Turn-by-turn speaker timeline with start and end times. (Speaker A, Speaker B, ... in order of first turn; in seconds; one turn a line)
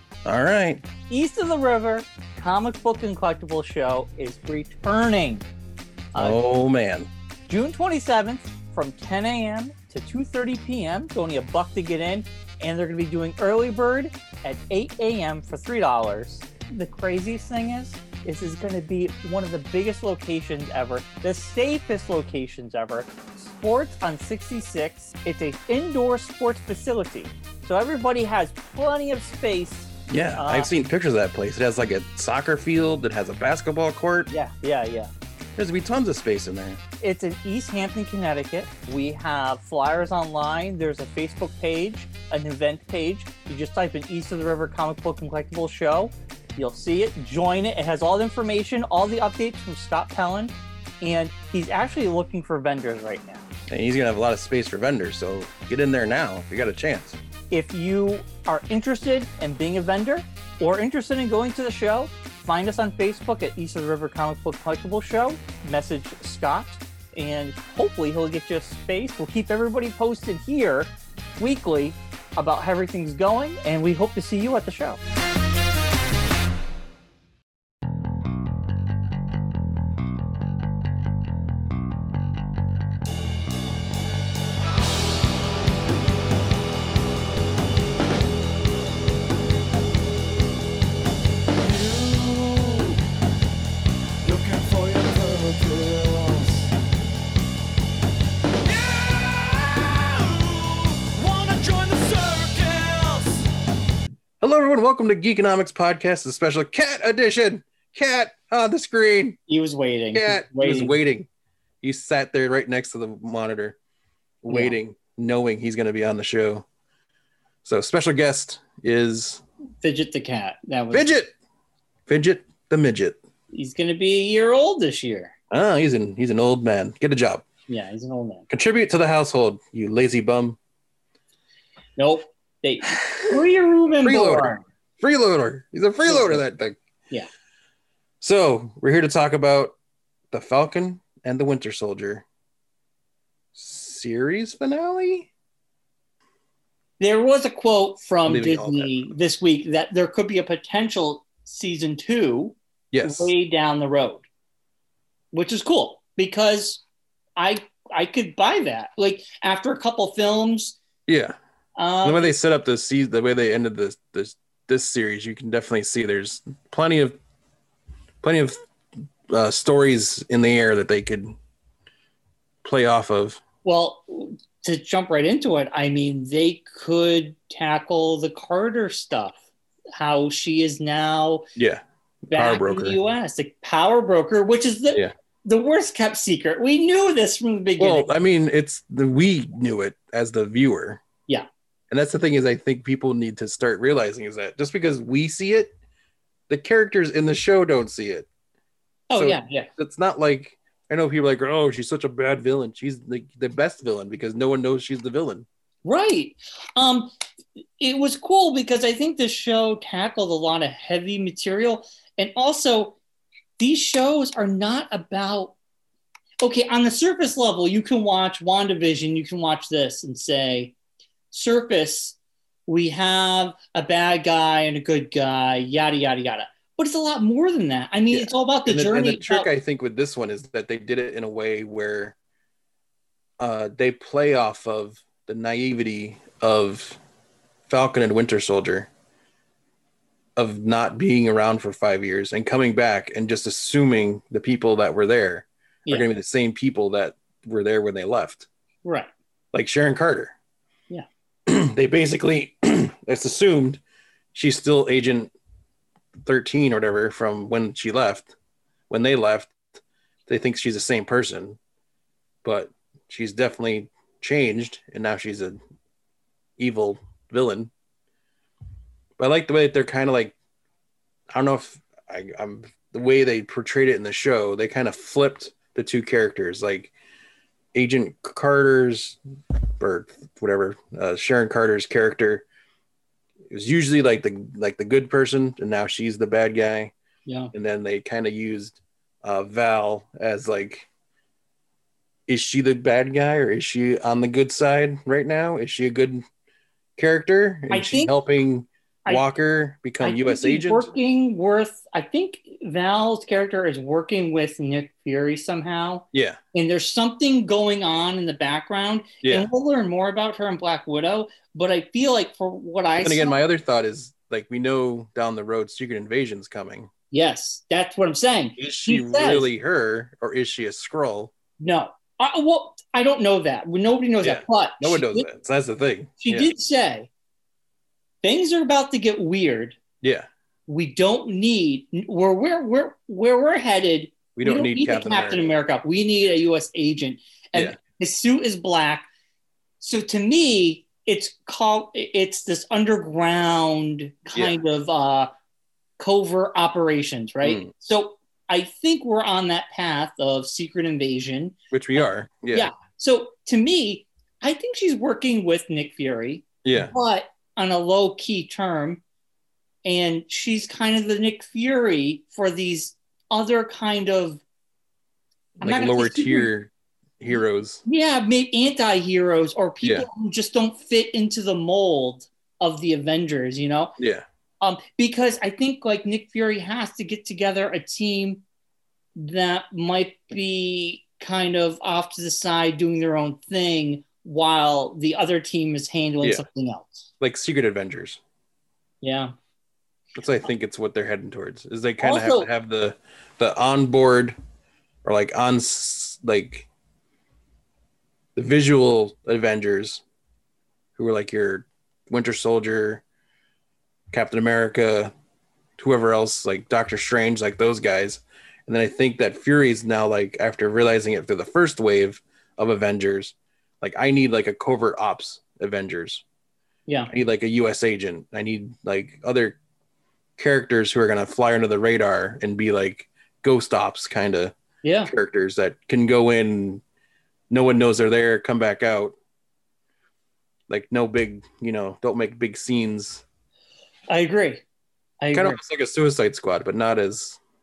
Speaker A: 0.2-0.9
Speaker B: 1.1-5.5
Speaker A: 6.2-7.1
Speaker B: 7.5-30.7
Speaker A: 30.1-34.3
Speaker B: 34.3-35.1
Speaker A: 35.6-36.8
Speaker B: 37.0-53.4
Speaker A: 53.7-57.2
Speaker B: 57.5-75.0
Speaker C: 91.6-93.0
Speaker C: 94.2-96.7
Speaker C: 98.7-103.4
Speaker A: 104.4-109.4
Speaker B: 109.5-111.0
Speaker A: 110.1-111.3
Speaker A: 111.8-113.8
Speaker A: 114.4-116.7
Speaker B: 114.5-114.8
Speaker A: 117.7-119.4
Speaker B: 119.8-121.1
Speaker A: 120.9-121.3
Speaker A: 122.1-123.2
Speaker B: 123.5-125.3
Speaker A: 125.5-127.5
Speaker B: 127.7-128.5
Speaker A: 128.5-130.6
Speaker B: 132.0-134.6
Speaker A: 134.0-136.8
Speaker B: 136.1-136.4
Speaker A: 138.2-139.8
Speaker A: 140.3-142.2
Speaker A: 143.6-145.3
Speaker B: 147.0-154.2
Speaker A: 148.3-149.1
Speaker A: 152.9-153.3
Speaker B: 155.3-156.8
Speaker B: 157.4-160.8
Speaker A: 161.1-161.3
Speaker B: 161.8-162.3
Speaker A: 162.0-167.2
Speaker A: 168.2-168.6
Speaker A: 169.3-171.3
Speaker A: 172.6-173.4
Speaker B: 173.6-179.4
Speaker B: 180.0-181.5
Speaker A: 181.6-183.0
Speaker B: 182.3-188.1
Speaker A: 187.8-191.0
Speaker A: 191.9-195.7
Speaker A: 196.5-198.3
Speaker B: 199.1-199.7
Speaker A: 199.2-205.5
Speaker B: 205.8-207.1
Speaker B: 207.8-213.0
Speaker B: 213.6-215.6
Speaker B: 216.4-220.8
Speaker B: 221.3-222.2
Speaker B: 222.7-229.5
Speaker A: 228.1-232.2
Speaker A: 233.4-237.0
Speaker A: 237.7-238.9
Speaker A: 240.4-248.5
Speaker A: 249.5-250.3
Speaker A: 251.5-253.8
Speaker A: 254.3-255.3
Speaker A: 256.2-258.3
Speaker A: 258.9-259.7
Speaker A: 260.3-261.6
Speaker A: 262.4-265.6
Speaker A: 266.6-267.7
Speaker A: 269.2-270.4
Speaker A: 271.3-276.9
Speaker A: 277.7-279.2
Speaker A: 279.8-282.4
Speaker A: 283.5-286.9
Speaker B: 287.3-287.5
Speaker A: 287.5-290.9
Speaker A: 292.3-296.2
Speaker A: 297.0-300.9
Speaker B: 297.7-298.1
Speaker B: 300.0-313.4
Speaker A: 306.1-306.4
Speaker A: 309.2-309.5
Speaker A: 313.0-316.9
Speaker B: 317.1-319.5
Speaker A: 318.6-321.3
Speaker B: 321.6-325.3
Speaker A: 324.2-326.5
Speaker B: 326.2-327.1
Speaker B: 328.2-329.8
Speaker A: 330.0-330.3
Speaker B: 330.7-339.1
Speaker A: 334.4-335.5
Speaker B: 339.8-345.3
Speaker B: 346.0-351.6
Speaker A: 347.4-347.7
Speaker A: 351.7-352.7
Speaker B: 352.5-359.0
Speaker A: 356.6-356.9
Speaker B: 359.9-364.4
Speaker A: 365.6-367.8
Speaker B: 365.6-366.5
Speaker B: 367.9-373.9
Speaker A: 369.8-370.1
Speaker A: 374.0-374.2
Speaker B: 374.6-378.4
Speaker B: 379.2-387.1
Speaker A: 387.2-388.2
Speaker B: 389.0-389.3
Speaker A: 390.1-394.4
Speaker B: 392.0-392.5
Speaker A: 395.1-396.7
Speaker A: 398.4-400.0
Speaker A: 401.0-403.0
Speaker A: 404.1-405.1
Speaker A: 405.8-416.2
Speaker A: 417.1-419.6
Speaker A: 420.4-424.6
Speaker B: 424.8-425.1
Speaker A: 425.1-426.8
Speaker A: 427.5-429.1
Speaker A: 430.7-433.2
Speaker B: 434.1-434.6
Speaker B: 435.2-435.6
Speaker A: 435.3-437.4